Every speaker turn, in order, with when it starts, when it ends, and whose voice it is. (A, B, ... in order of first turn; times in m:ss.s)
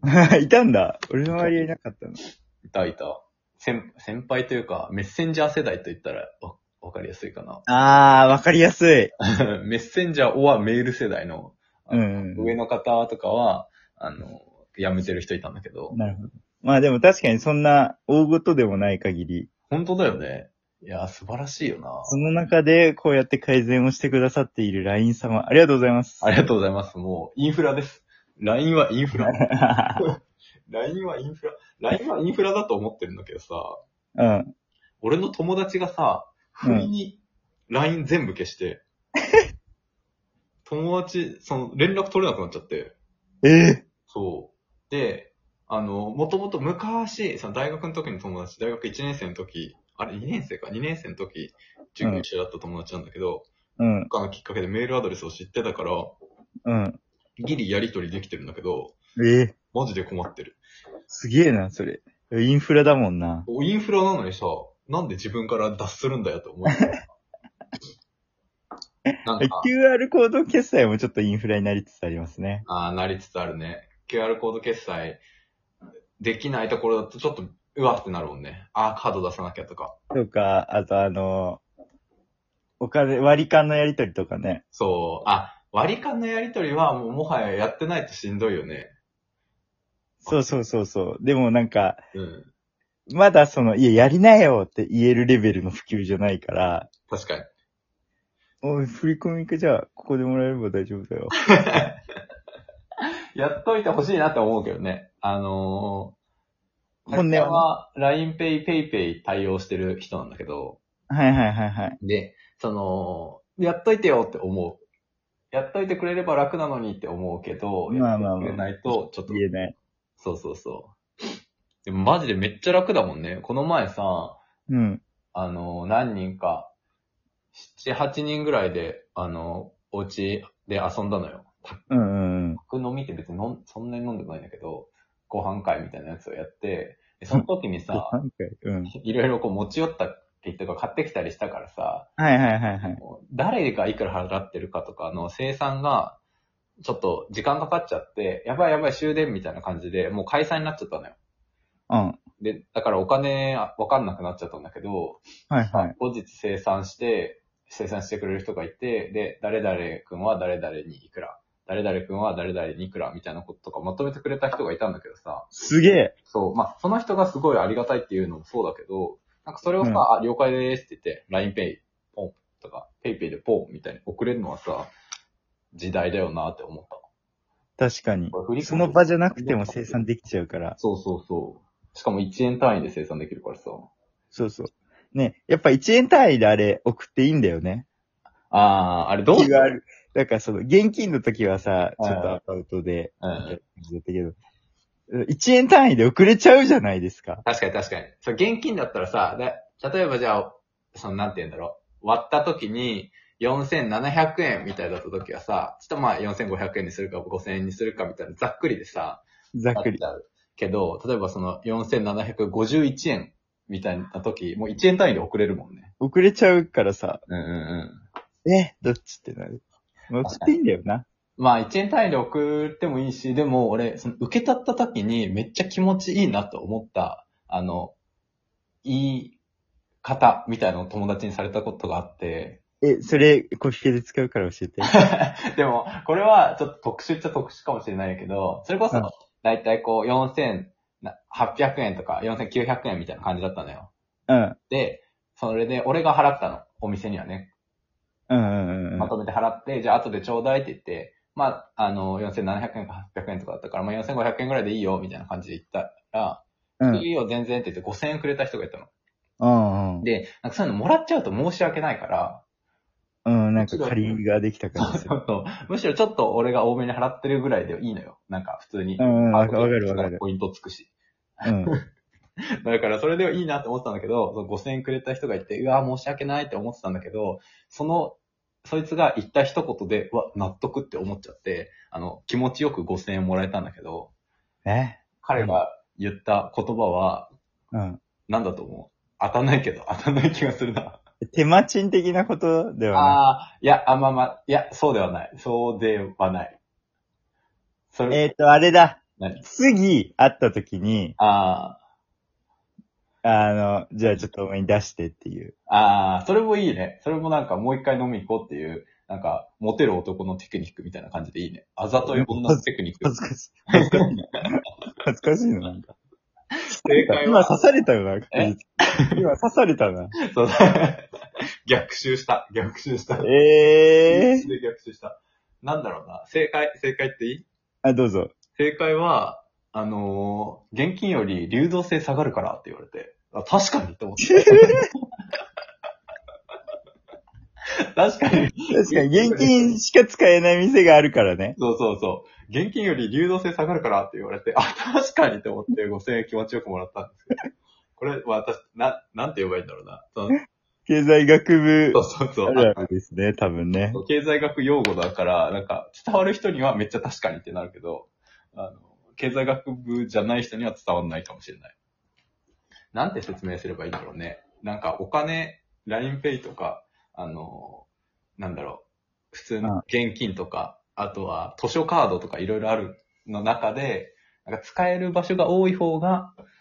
0:00.1-0:02.2 A
0:02.7-0:07.6 B
0:07.7-0:09.1 A
0:09.4-0:16.0 B
0:11.9-0:12.6 A
0:15.9-0:19.5 A
0:19.7-0:22.1 B
0:22.1-0:26.3 A
0:26.2-0:29.3 B
0:29.2-0:30.0 A
0:30.7-0:33.8 B
0:34.2-0:34.5 A
0:35.0-0:38.8 B
0:36.6-0:36.9 A
0:40.6-0:42.9 B
0:43.4-0:43.8 A
0:44.1-0:53.5 B
0:53.8-0:54.1 A
0:54.1-0:56.2 B
0:56.6-0:57.0 A
0:57.4-0:58.9 B
0:59.2-0:59.5 A
0:59.7-1:00.6 B
1:01.1-1:03.5 A
1:03.5-1:07.0 B
1:09.2-1:09.7 B
1:09.4-1:12.6 A
1:12.6-1:15.2 B
1:16.2-1:19.9 B
1:20.1-1:21.6 A
1:22.8-1:24.6 A
1:24.7-1:28.9 B
1:30.2-1:32.0 A
1:32.1-1:32.5 B
1:33.1-1:36.9 A
1:37.1-1:37.5 B
1:38.6-1:41.4 A
1:41.6-1:41.9 B
1:43.4-1:46.2 B
1:47.1-1:47.6 A
1:47.1-1:50.8 B
1:51.1-1:52.0 A
1:52.0-1:54.8 B
1:55.5-1:59.4 B
1:57.9-1:58.7 A
1:59.3-1:59.7 A
2:00.2-2:01.0 B
2:01.8-2:04.4 B
2:04.7-2:05.0 A
2:05.3-2:06.7 B
2:07.5-2:11.8 B
2:11.9-2:12.6 A
2:12.6-2:18.2 B
2:17.3-2:18.9 A
2:18.9-2:22.1 B
2:22.2-2:23.0 A
2:22.9-2:26.2 B
2:26.8-2:31.2 B
2:31.9-2:32.2 A
2:32.4-2:45.5 B
2:35.5-2:35.9 A
2:45.5-2:46.1 A
2:46.1-2:54.9 B
2:49.8-2:50.0 A
2:55.7-2:57.0 B
2:57.8-3:00.8 A
2:58.3-2:59.6 B
3:00.8-3:03.9 B
3:04.3-3:07.8 A
3:08.5-3:09.5 B
3:09.3-3:14.4 A
3:12.0-3:12.4 B
3:13.2-3:13.6 B
3:15.1-3:17.4 A
3:17.4-3:35.9 B
3:29.5-3:30.0 A
3:36.0-3:37.2 A
3:37.3-3:38.0 B
3:38.4-3:41.0 A
3:40.2-3:40.5 B
3:41.4-3:47.9 B
3:48.8-3:49.4 B
3:50.0-3:52.6 B
3:52.8-3:54.9 A
3:54.9-4:03.9 B
4:04.3-4:04.6 A
4:04.7-4:07.5 B
4:08.3-4:09.1 A
4:09.0-4:18.9 B
4:16.8-4:17.0 A
4:19.4-4:20.1 A
4:20.0-4:22.4 B
4:23.2-4:25.2 A
4:23.6-4:24.2 B
4:24.8-4:31.7 B
4:29.0-4:30.2 A
4:31.4-4:31.7 A
4:32.6-4:44.1 B
4:44.6-4:45.6 A
4:45.2-4:47.3 B
4:47.7-4:48.0 A
4:48.3-4:51.0 B
4:51.2-4:53.2 A
4:52.9-4:56.6 B
4:57.9-4:58.2 B
4:58.1-5:01.2 A
4:59.2-4:59.4 B
5:01.2-5:01.8 B
5:03.2-5:05.5 A
5:05.7-5:13.1 B
5:12.1-5:15.9 A
5:13.7-5:14.1 B
5:16.7-5:20.1 A
5:16.8-5:17.6 B
5:18.3-5:19.2 B
5:20.2-5:21.0 B
5:21.7-5:23.3 B
5:23.2-5:24.5 A
5:24.1-5:27.4 B
5:27.8-5:28.3 A
5:28.5-5:35.0 B
5:34.3-5:34.9 A
5:38.0-5:39.7 B
5:38.5-5:41.6 A
5:41.6-5:50.4 B
5:50.9-5:54.0 A
5:51.9-5:52.8 B
5:53.9-6:01.7 B
6:02.9-6:07.9 B
6:08.4-6:16.4 B